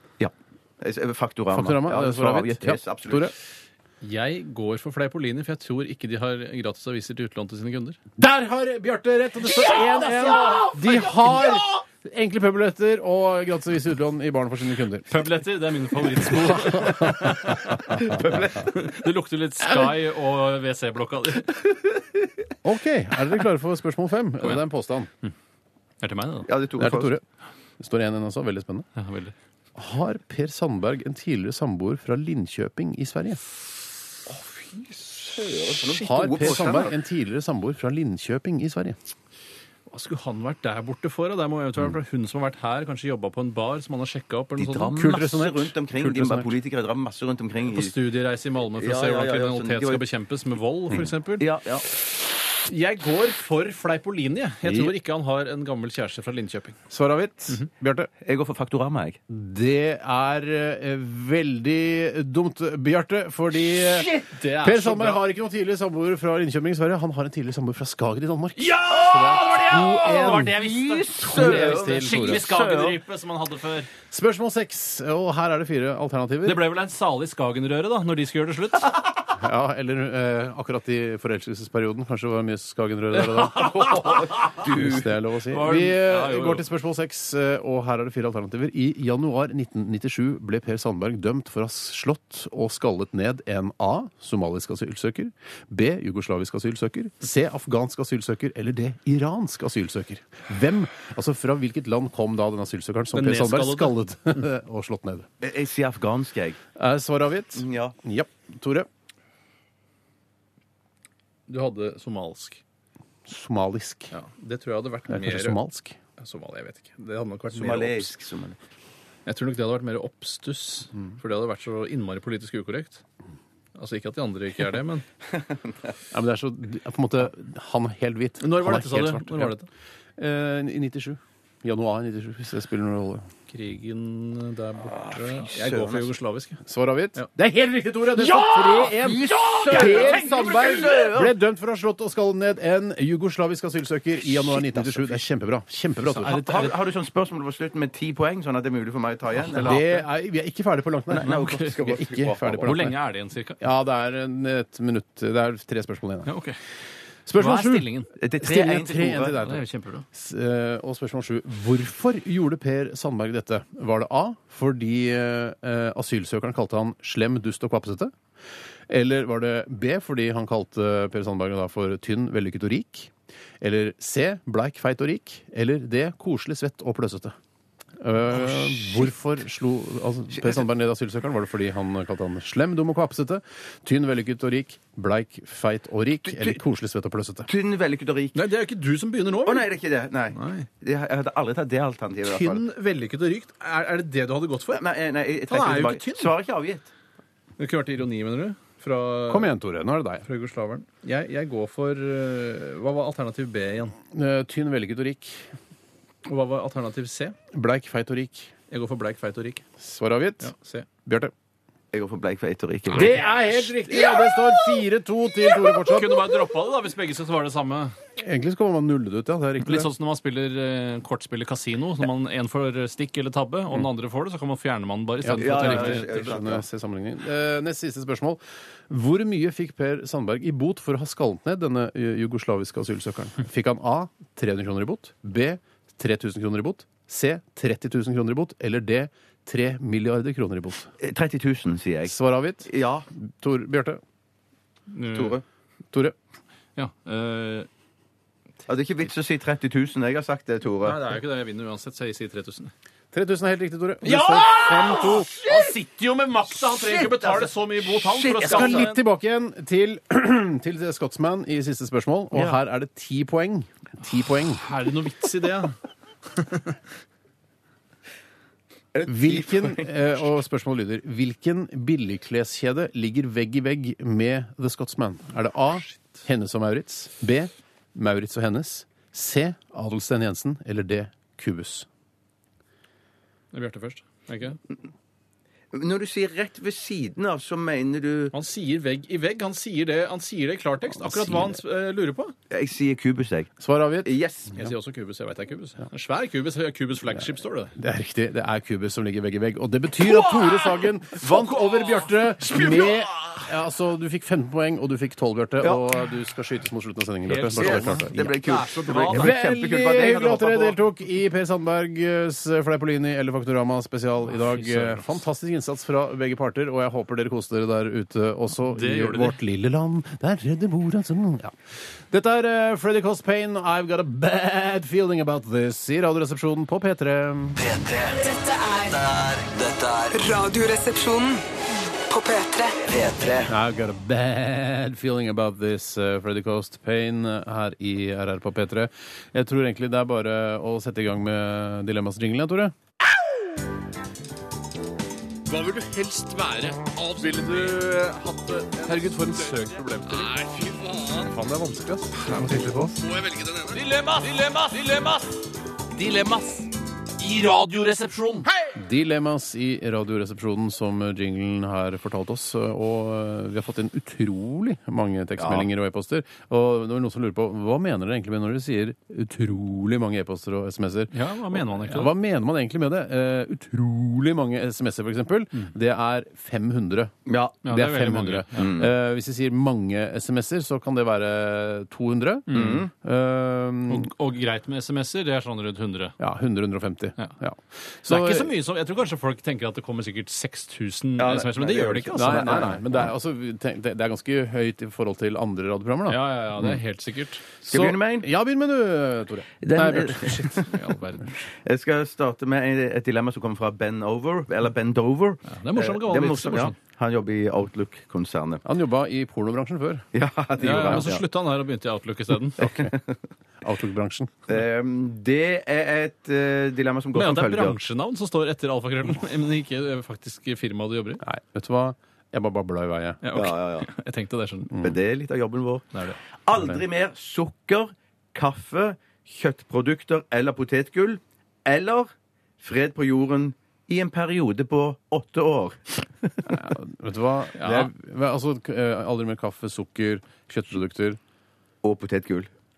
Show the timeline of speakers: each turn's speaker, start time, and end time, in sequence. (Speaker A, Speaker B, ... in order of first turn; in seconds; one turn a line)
Speaker A: 0.2-3.3
Speaker B: 1.5-3.3
Speaker C: 4.0-8.0
Speaker B: 8.2-15.2
Speaker C: 15.1-21.6
Speaker B: 16.3-17.1
Speaker A: 17.9-18.7
Speaker B: 22.6-25.1
Speaker C: 26.0-26.5
Speaker A: 26.5-27.1
Speaker B: 26.8-27.2
Speaker B: 27.8-28.9
Speaker C: 28.9-29.3
Speaker B: 29.8-33.4
Speaker A: 34.3-36.9
Speaker B: 35.9-39.0
Speaker C: 39.9-45.0
Speaker A: 44.6-47.9
Speaker B: 45.0-46.5
Speaker C: 47.6-51.5
Speaker A: 48.8-50.0
Speaker A: 51.4-51.9
Speaker C: 52.6-56.8
Speaker B: 54.6-54.9
Speaker B: 56.9-58.1
Speaker A: 58.2-59.2
Speaker B: 59.3-64.1
Speaker C: 64.0-65.2
Speaker B: 64.6-70.6
Speaker C: 68.6-73.9
Speaker A: 70.3-73.0
Speaker B: 71.2-72.4
Speaker B: 74.1-76.6
Speaker C: 76.4-79.0
Speaker B: 79.3-105.3
Speaker C: 83.1-84.7
Speaker A: 83.7-85.1
Speaker C: 85.5-86.6
Speaker C: 103.1-104.0
Speaker A: 105.4-106.6
Speaker B: 106.8-108.9
Speaker A: 107.6-107.9
Speaker C: 111.5-112.6
Speaker B: 113.3-114.1
Speaker C: 114.1-115.6
Speaker B: 115.1-116.0
Speaker C: 116.2-118.1
Speaker A: 117.5-118.6
Speaker C: 119.2-123.0
Speaker C: 123.8-125.0
Speaker B: 126.1-129.5
Speaker C: 128.4-129.7
Speaker B: 130.2-133.2
Speaker C: 133.5-136.6
Speaker A: 134.9-136.1
Speaker B: 136.6-146.6
Speaker A: 138.2-141.3
Speaker C: 139.7-140.1
Speaker A: 144.4-145.2
Speaker C: 146.1-146.7
Speaker A: 146.2-149.9
Speaker C: 149.4-149.9
Speaker B: 149.6-152.9
Speaker A: 151.1-152.8
Speaker C: 151.2-151.8
Speaker C: 152.6-153.6
Speaker B: 153.6-156.3
Speaker C: 156.2-156.6
Speaker B: 157.2-157.9
Speaker C: 157.3-158.1
Speaker A: 158.2-159.4
Speaker B: 158.4-168.1
Speaker C: 159.3-160.0
Speaker B: 168.9-177.3
Speaker B: 178.0-187.5
Speaker A: 186.3-186.6
Speaker A: 187.5-188.4
Speaker C: 188.3-189.7
Speaker A: 189.4-192.6
Speaker C: 190.3-190.7
Speaker C: 192.2-194.8
Speaker A: 194.7-196.9
Speaker C: 195.5-196.3
Speaker C: 197.6-199.5
Speaker B: 199.3-200.2
Speaker C: 200.2-203.9
Speaker B: 204.1-205.5
Speaker C: 206.2-207.3
Speaker B: 207.5-208.5
Speaker C: 208.7-209.6
Speaker B: 209.8-210.5
Speaker C: 210.4-210.9
Speaker B: 211.0-211.3
Speaker A: 211.9-213.2
Speaker C: 212.9-214.0
Speaker B: 212.9-216.2
Speaker C: 215.8-217.9
Speaker B: 218.2-219.9
Speaker C: 219.6-226.3
Speaker B: 225.2-240.9
Speaker A: 225.4-226.6
Speaker A: 241.0-243.1
Speaker B: 242.0-244.0
Speaker C: 244.9-245.4
Speaker A: 245.1-245.4
Speaker C: 246.8-247.7
Speaker A: 248.7-251.0
Speaker C: 250.8-252.7
Speaker B: 253.1-255.3
Speaker C: 254.0-259.0
Speaker A: 255.1-255.7
Speaker A: 256.5-258.9
Speaker B: 258.4-264.6
Speaker C: 264.6-265.8
Speaker C: 266.4-266.8
Speaker A: 268.9-269.9
Speaker B: 269.1-281.9
Speaker C: 283.5-284.6
Speaker A: 285.7-288.3
Speaker C: 288.3-292.3
Speaker B: 291.0-291.6
Speaker A: 292.5-294.6
Speaker B: 293.6-294.1
Speaker C: 294.5-297.7
Speaker B: 297.8-308.2
Speaker C: 300.0-302.9
Speaker A: 305.6-305.9
Speaker C: 307.2-309.4
Speaker A: 307.6-310.8
Speaker B: 309.1-321.6
Speaker C: 314.3-315.1
Speaker C: 318.6-319.4
Speaker B: 322.1-327.6
Speaker D: 327.6-328.3
Speaker E: 328.2-329.0
Speaker D: 328.9-330.2
Speaker E: 330.1-331.4
Speaker E: 332.1-332.8
Speaker D: 332.8-333.5
Speaker B: 333.5-342.7
Speaker C: 345.5-351.3
Speaker B: 351.3-352.9
Speaker C: 353.0-355.3
Speaker C: 355.9-358.5
Speaker B: 358.7-377.1
Speaker A: 365.4-365.7
Speaker C: 371.1-372.1
Speaker A: 377.2-377.6
Speaker C: 377.6-378.7
Speaker B: 377.6-384.1
Speaker A: 378.5-378.9
Speaker C: 382.5-382.8
Speaker A: 382.5-382.9
Speaker C: 383.9-386.2
Speaker B: 386.2-388.5
Speaker C: 388.1-392.8
Speaker A: 391.2-392.8
Speaker B: 392.1-396.8
Speaker C: 396.1-397.4
Speaker B: 397.6-400.6
Speaker A: 397.6-398.3
Speaker A: 399.6-400.7
Speaker C: 400.6-401.4
Speaker A: 401.5-408.6
Speaker C: 405.4-406.8
Speaker B: 408.6-410.0
Speaker A: 410.1-411.2
Speaker C: 410.6-412.6
Speaker B: 410.6-411.1
Speaker B: 412.6-412.9
Speaker A: 412.6-413.2
Speaker B: 413.6-414.3
Speaker A: 414.5-417.8
Speaker C: 417.1-421.2
Speaker B: 421.2-423.2
Speaker C: 423.2-424.7
Speaker A: 423.3-423.9
Speaker B: 424.7-425.0
Speaker A: 424.8-425.9
Speaker C: 425.9-426.2
Speaker A: 426.4-432.1
Speaker B: 426.5-426.8
Speaker A: 432.6-436.6
Speaker B: 436.4-441.2
Speaker C: 437.6-437.9
Speaker A: 441.8-442.5